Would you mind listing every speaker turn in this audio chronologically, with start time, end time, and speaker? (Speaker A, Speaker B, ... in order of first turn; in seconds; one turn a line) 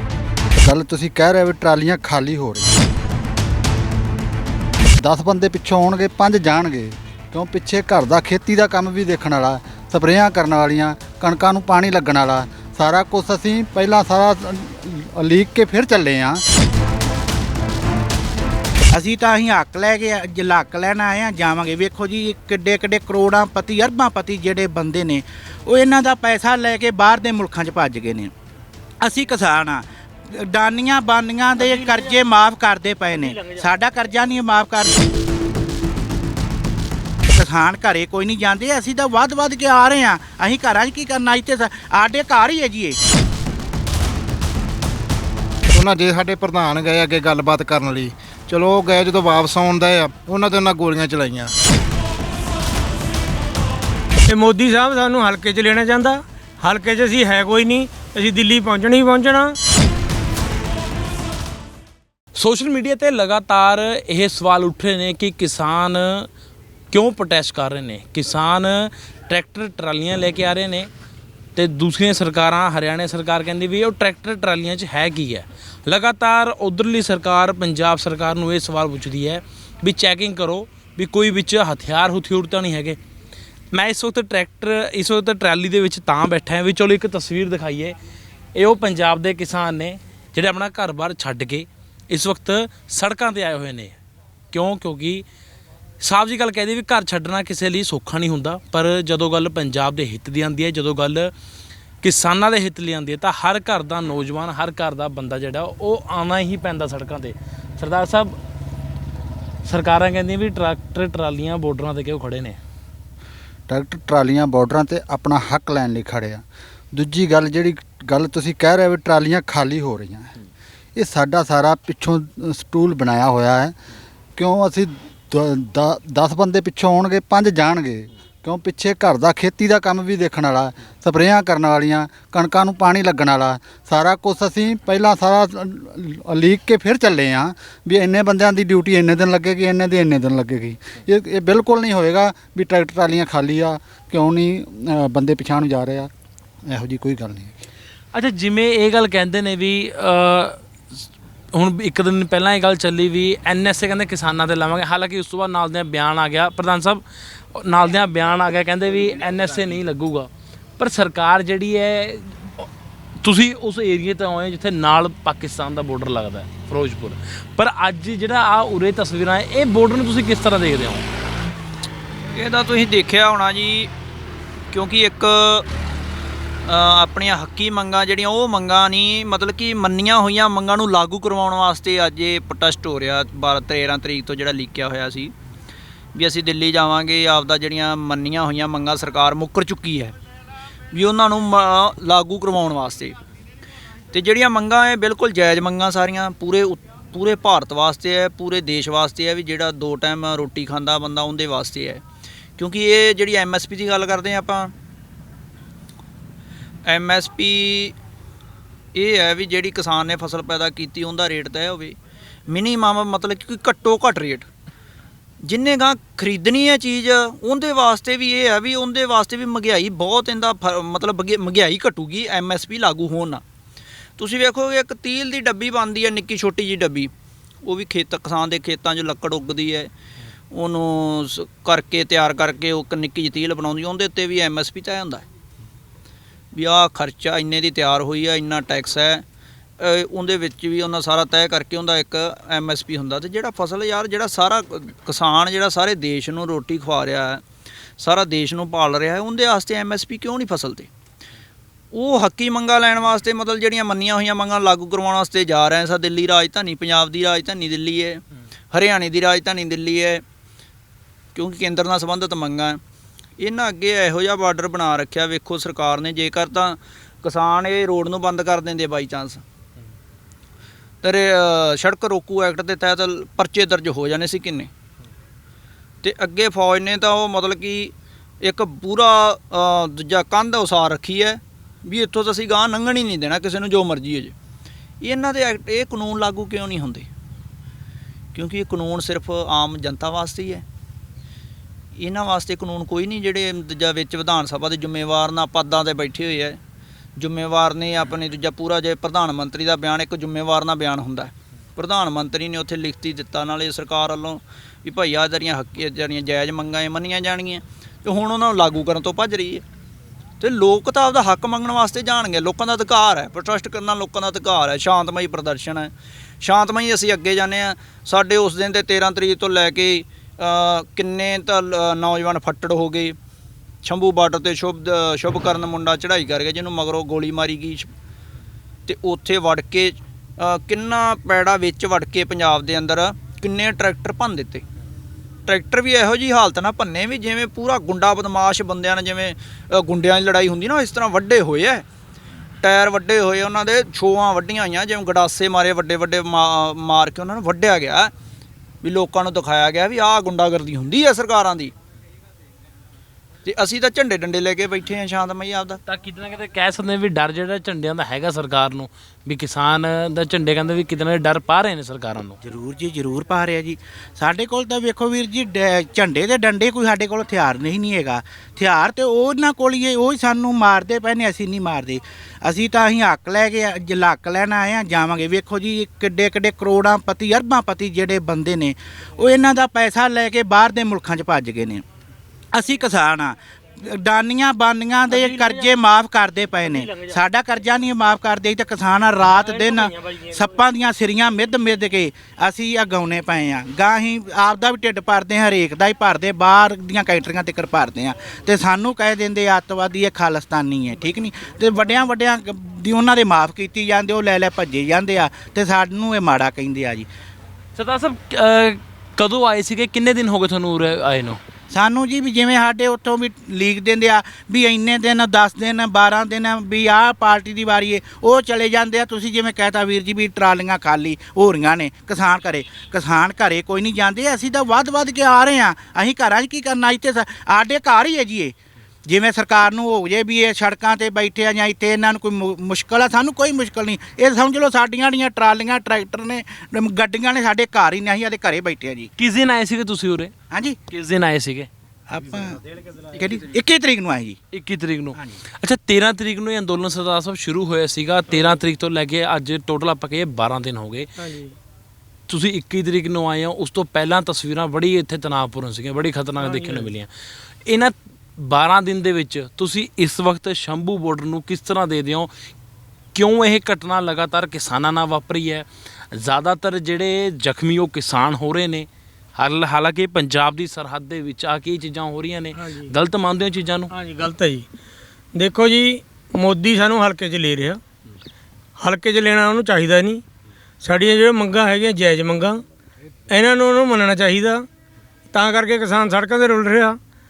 Speaker A: 0.6-2.7
Speaker A: 5.0-16.4
Speaker B: 18.9-28.3
Speaker B: 29.0-35.0
Speaker B: 37.3-43.0
Speaker C: 45.7-51.5
Speaker D: 54.3-59.6
Speaker E: 62.3-66.3
Speaker E: 66.9-70.9
Speaker E: 71.5-83.0
Speaker E: 83.7-88.0
Speaker E: 88.5-94.0
Speaker E: 94.5-95.2
Speaker E: 96.0-101.3
Speaker E: 102.0-108.4
Speaker E: 109.6-112.6
Speaker A: 113.7-120.3
Speaker A: 121.0-123.8
Speaker A: 124.3-146.1
Speaker A: 146.7-147.7
Speaker E: 148.1-151.0
Speaker E: 151.5-162.7
Speaker E: 163.2-171.1
Speaker F: 172.3-173.9
Speaker F: 174.7-175.7
Speaker F: 176.6-185.3
Speaker F: 186.1-190.1
Speaker F: 190.9-193.2
Speaker F: 194.1-202.0
Speaker F: 202.6-204.7
Speaker F: 206.9-207.9
Speaker F: 208.9-211.9
Speaker F: 212.5-214.5
Speaker F: 215.4-223.4
Speaker F: 224.2-227.1
Speaker F: 227.6-229.9
Speaker F: 230.5-235.2
Speaker F: 236.5-239.2
Speaker F: 239.8-247.4
Speaker F: 248.0-250.9
Speaker F: 251.9-258.2
Speaker F: 258.7-260.2
Speaker F: 261.3-262.8
Speaker F: 263.4-269.4
Speaker F: 271.0-274.7
Speaker F: 276.0-284.3
Speaker F: 285.0-287.1
Speaker F: 288.3-290.6
Speaker F: 292.0-296.6
Speaker F: 297.2-309.6
Speaker F: 310.4-323.1
Speaker F: 323.8-327.9
Speaker F: 328.9-334.6
Speaker F: 335.5-341.9
Speaker F: 342.6-348.1
Speaker F: 348.8-351.7
Speaker F: 353.4-355.8
Speaker E: 355.9-362.4
Speaker B: 362.4-381.8
Speaker B: 382.5-407.1
Speaker D: 385.1-385.6
Speaker D: 389.4-390.2
Speaker E: 407.7-411.4
Speaker B: 411.7-439.1
Speaker E: 439.2-440.3
Speaker B: 440.5-440.8
Speaker E: 440.9-441.7
Speaker B: 442.1-442.6
Speaker B: 443.1-444.4
Speaker E: 444.5-451.1
Speaker B: 445.1-445.4
Speaker D: 451.2-451.6
Speaker E: 452.3-457.1
Speaker D: 456.4-456.9
Speaker E: 457.6-462.3
Speaker E: 463.1-473.9
Speaker D: 472.6-472.9
Speaker D: 473.9-474.6
Speaker D: 475.3-477.8
Speaker D: 478.8-480.2
Speaker D: 480.8-482.6
Speaker D: 483.3-484.6
Speaker D: 485.3-487.0